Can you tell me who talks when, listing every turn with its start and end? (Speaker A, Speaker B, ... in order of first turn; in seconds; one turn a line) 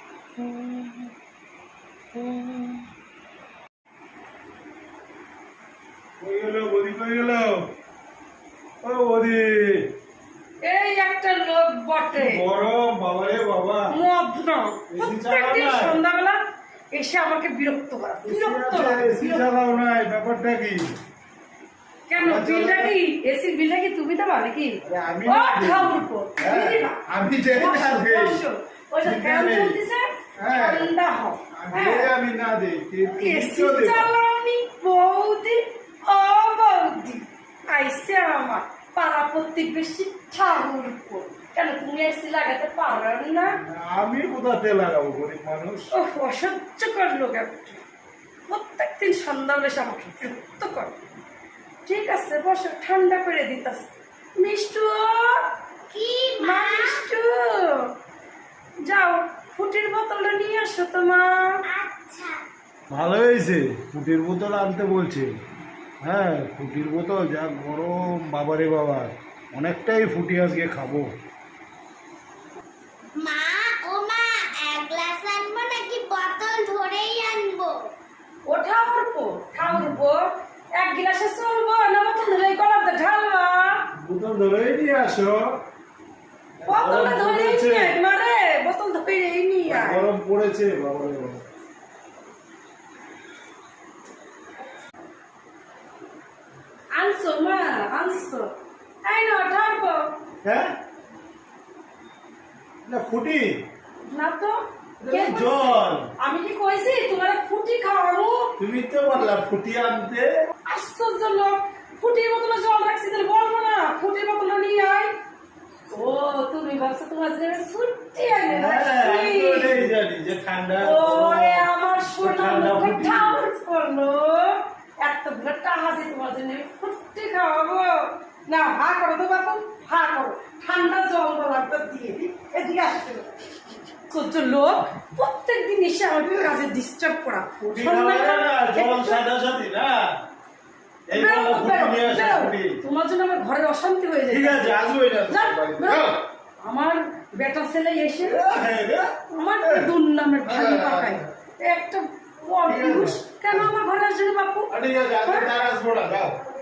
Speaker A: 0.4-1.1
Speaker A: 2.2-2.8
Speaker B: 6.2-7.6
Speaker B: 8.8-9.9
Speaker A: 10.6-12.4
Speaker B: 12.1-13.9
Speaker A: 13.9-16.4
Speaker B: 14.9-16.0
Speaker A: 16.9-19.5
Speaker B: 18.2-20.9
Speaker A: 22.1-27.0
Speaker B: 22.2-22.9
Speaker B: 24.8-28.4
Speaker A: 27.5-32.1
Speaker B: 29.0-29.8
Speaker B: 30.4-30.9
Speaker B: 31.6-34.1
Speaker A: 33.1-43.6
Speaker B: 43.6-45.9
Speaker A: 45.9-47.8
Speaker A: 48.5-51.0
Speaker A: 51.9-55.4
Speaker C: 55.9-57.0
Speaker A: 56.4-57.9
Speaker A: 58.9-61.6
Speaker C: 61.7-62.4
Speaker B: 62.9-65.3
Speaker B: 66.0-71.1
Speaker C: 73.2-77.8
Speaker A: 78.5-80.2
Speaker A: 80.8-83.8
Speaker B: 84.0-85.5
Speaker B: 86.6-88.0
Speaker A: 86.7-90.1
Speaker B: 89.7-91.5
Speaker A: 97.0-98.5
Speaker A: 99.0-100.1
Speaker B: 100.4-100.7
Speaker B: 102.8-103.5
Speaker A: 104.1-108.5
Speaker B: 105.0-106.1
Speaker B: 108.6-110.3
Speaker A: 110.7-115.1
Speaker A: 115.9-119.8
Speaker B: 118.5-121.7
Speaker A: 120.8-133.4
Speaker B: 122.2-123.4
Speaker A: 134.1-139.2
Speaker B: 137.6-139.9
Speaker B: 141.1-142.8
Speaker A: 141.1-144.8
Speaker B: 144.3-146.2
Speaker A: 145.3-146.1
Speaker A: 146.6-148.4
Speaker B: 148.2-149.9
Speaker A: 149.3-154.7
Speaker B: 150.4-151.2
Speaker B: 152.7-153.7
Speaker B: 154.7-156.4
Speaker A: 155.2-155.5